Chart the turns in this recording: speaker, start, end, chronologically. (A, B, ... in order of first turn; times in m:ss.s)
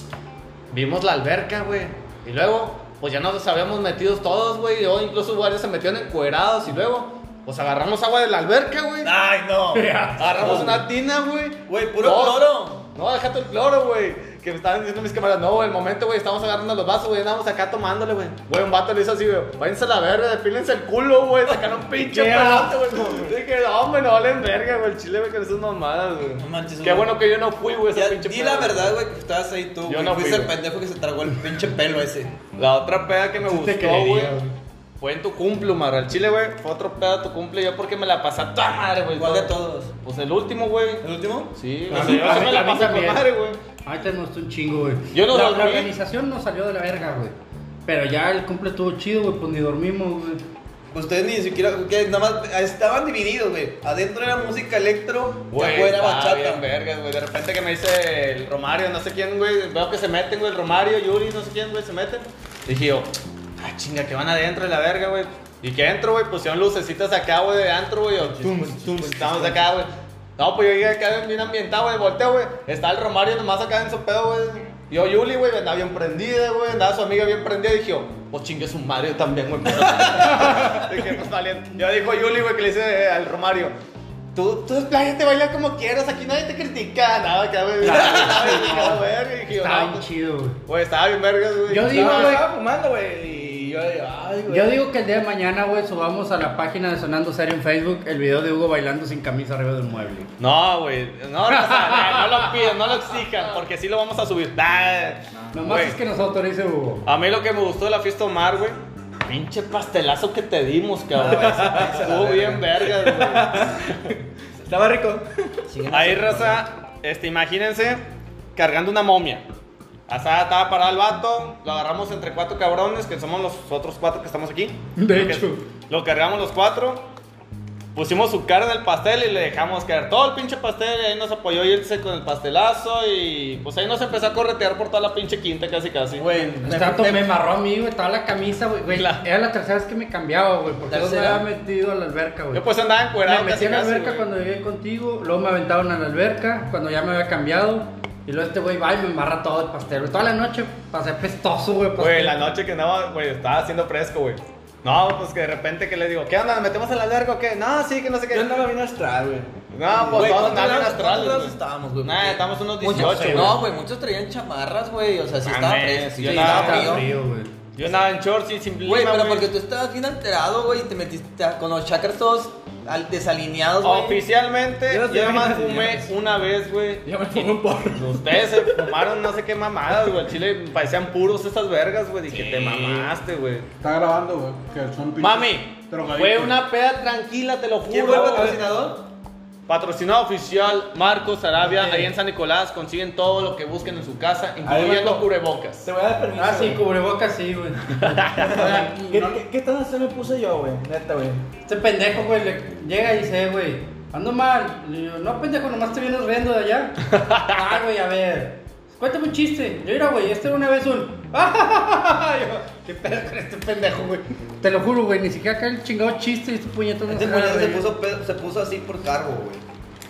0:00.7-0:09.1 A
0:09.0-0:10.8 B
0:09.7-0:10.5 C
0:10.2-0:29.0 A
0:11.7-0:12.8 B
0:22.0-0:23.3 B
0:26.4-0:27.2 B
0:27.9-0:32.4 B
0:29.9-0:30.5 A
0:32.5-0:34.4 A
0:33.4-0:34.5 C
0:35.0-0:43.6 A
0:39.2-0:40.0 B
0:41.0-0:42.2 B
0:41.9-0:43.3 C
0:43.8-0:47.4 C
0:45.1-0:45.9 A
0:47.9-0:50.4 C
0:50.9-0:56.6 B
0:55.5-1:23.7 A
1:08.3-1:09.7 D
1:24.3-1:30.0 A
1:27.8-1:30.6 C
1:30.7-1:32.4 A
1:31.7-1:32.5 C
1:31.9-1:34.8 D
1:34.5-1:40.3 C
1:40.4-1:46.0 A
1:41.5-1:42.5 C
1:45.5-1:47.1 C
1:47.1-1:53.7 A
1:51.2-1:55.5 D
1:51.2-1:52.4 B
1:55.7-1:56.6 B
1:55.9-1:58.0 A
1:58.6-1:59.4 A
2:00.1-2:07.0 A
2:05.0-2:05.6 C
2:07.9-2:16.3 A
2:16.2-2:17.2 E
2:16.6-2:22.7 C
2:18.9-2:19.2 A
2:20.9-2:21.4 B
2:22.5-2:24.3 A
2:23.2-2:32.5 C
2:32.0-2:38.5 A
2:38.3-2:40.4 D
2:39.7-2:43.6 A
2:40.1-2:47.1 B
2:42.9-2:43.6 C
2:45.4-2:47.1 A
2:46.2-2:47.5 C
2:47.8-2:49.5 A
2:48.8-2:54.2 B
2:53.8-3:03.7 A
2:54.9-2:56.1 D
2:57.0-2:59.1 D
3:02.4-3:03.1 D
3:03.8-3:06.6 E
3:05.2-3:08.6 A
3:07.9-3:09.0 B
3:08.0-3:08.8 D
3:09.7-3:15.9 A
3:11.7-3:12.1 C
3:14.6-3:16.8 D
3:16.4-3:18.4 C
3:18.0-3:18.5 A
3:18.4-3:21.4 D
3:18.4-3:19.4 E
3:21.7-3:37.9 C
3:27.2-3:27.5 A
3:37.1-3:39.6 B